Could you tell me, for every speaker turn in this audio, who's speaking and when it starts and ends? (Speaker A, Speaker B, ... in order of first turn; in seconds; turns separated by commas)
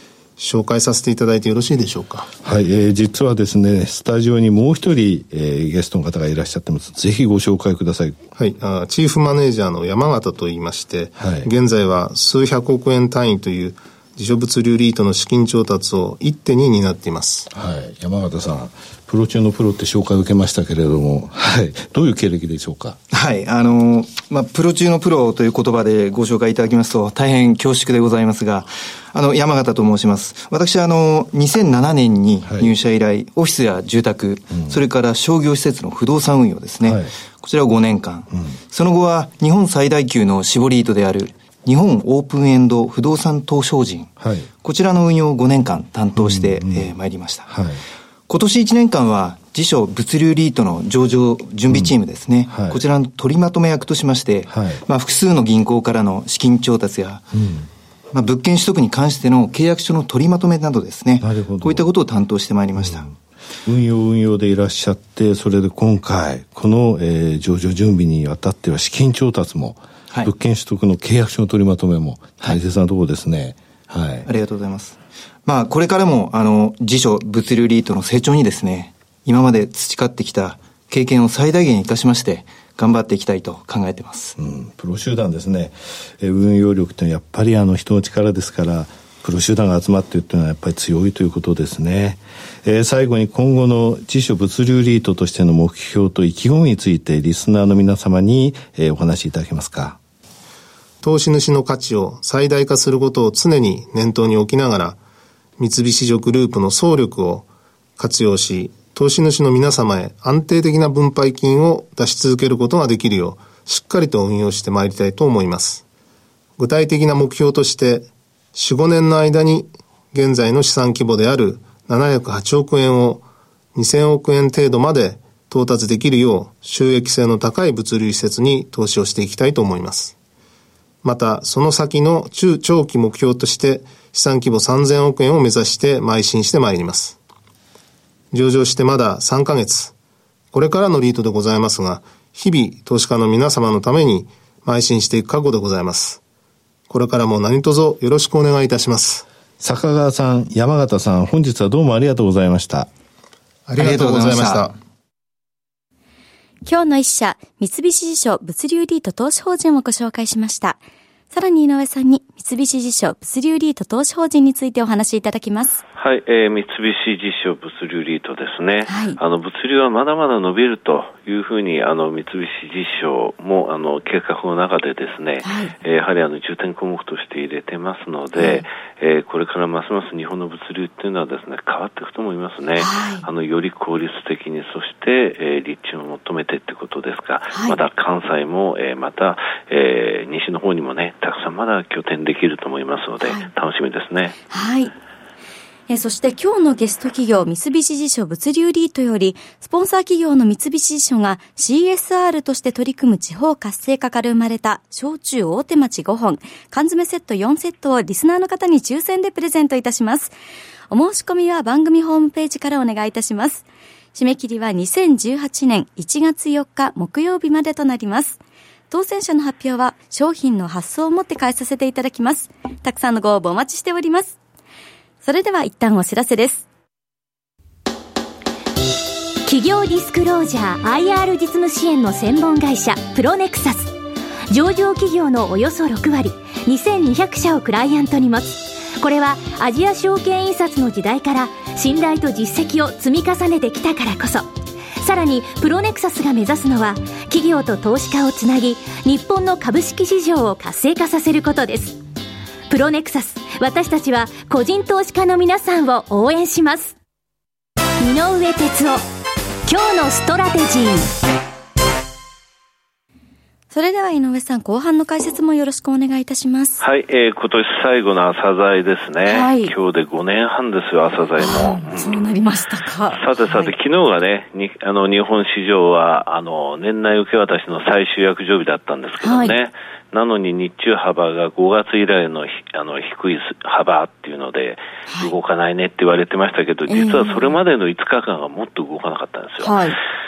Speaker A: 0.4-2.3, Speaker B: 2.4-8.2, Speaker A: 8.4-17.5, Speaker B: 11.2-11.5, Speaker B: 17.5-23.0, Speaker C: 23.1-47.5, Speaker B: 32.4-32.7, Speaker B: 44.2-44.5, Speaker B: 46.2-46.9, Speaker B: 47.5-47.8, Speaker C: 48.3-57.3, Speaker B: 52.5-52.8, Speaker B: 54.5-54.8, Speaker B: 57.3-57.7, Speaker C: 58.1-63.1, Speaker B: 61.2-61.9, Speaker B: 62.8-63.0, Speaker B: 63.7-74.3, Speaker C: 74.3-84.3, Speaker B: 84.4-100.0, Speaker A: 101.0-105.0, Speaker A: 105.6-115.8, Speaker A: 116.6-130.2, Speaker A: 131.0-137.2, Speaker A: 138.3-139.9, Speaker A: 140.5-146.2, Speaker A: 146.9-149.3, Speaker B: 149.6-152.9, Speaker A: 153.7-154.7, Speaker C: 153.8-154.7, Speaker D: 156.7-160.8, Speaker D: 161.3-165.8, Speaker E: 166.0-194.4, Speaker D: 168.9-169.2, Speaker D: 175.4-175.7, Speaker D: 178.4-178.6, Speaker D: 182.8-183.2, Speaker D: 187.5-187.8, Speaker D: 193.2-193.5, Speaker D: 194.5-194.9, Speaker D: 195.9-210.3, Speaker D: 210.9-218.4, Speaker D: 218.9-224.4, Speaker D: 225.2-226.7, Speaker F: 229.4-233.9, Speaker F: 234.5-252.0, Speaker F: 252.7-256.9, Speaker F: 258.0-259.0, Speaker F: 259.7-261.1, Speaker D: 263.7-266.8, Speaker E: 266.8-272.4, Speaker D: 269.2-269.7, Speaker D: 271.4-273.7, Speaker E: 273.1-289.9, Speaker D: 279.2-279.6, Speaker D: 285.1-285.3, Speaker D: 286.9-287.6, Speaker D: 289.6-290.0